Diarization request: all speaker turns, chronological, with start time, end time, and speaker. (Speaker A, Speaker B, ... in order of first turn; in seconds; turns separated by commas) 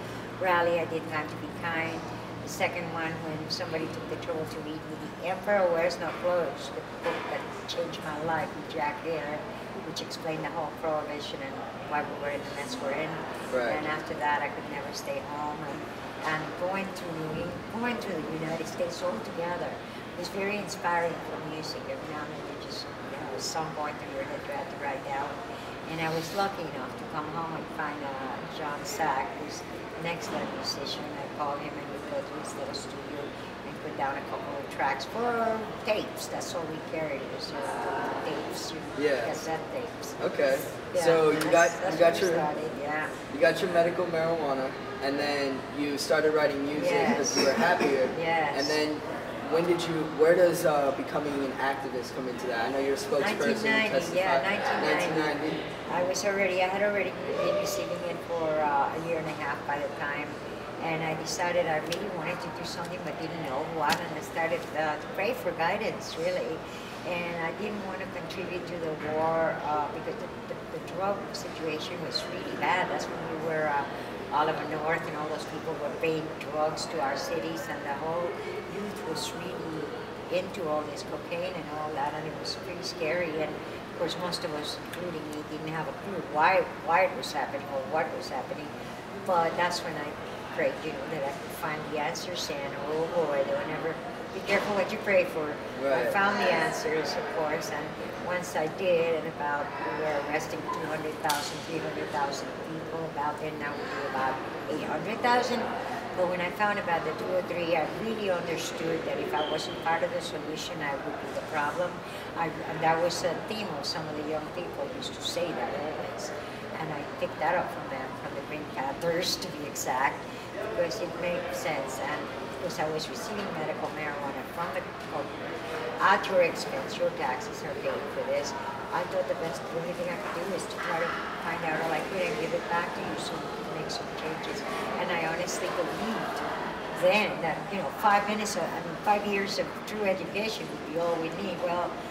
Speaker A: 0.4-40.2, Speaker B: 13.5-13.8, Speaker B: 39.0-39.3, Speaker B: 40.2-42.5, Speaker A: 40.9-43.2, Speaker B: 43.3-55.7, Speaker A: 46.7-48.8, Speaker A: 53.2-125.5, Speaker B: 95.8-96.2, Speaker A: 126.0-141.9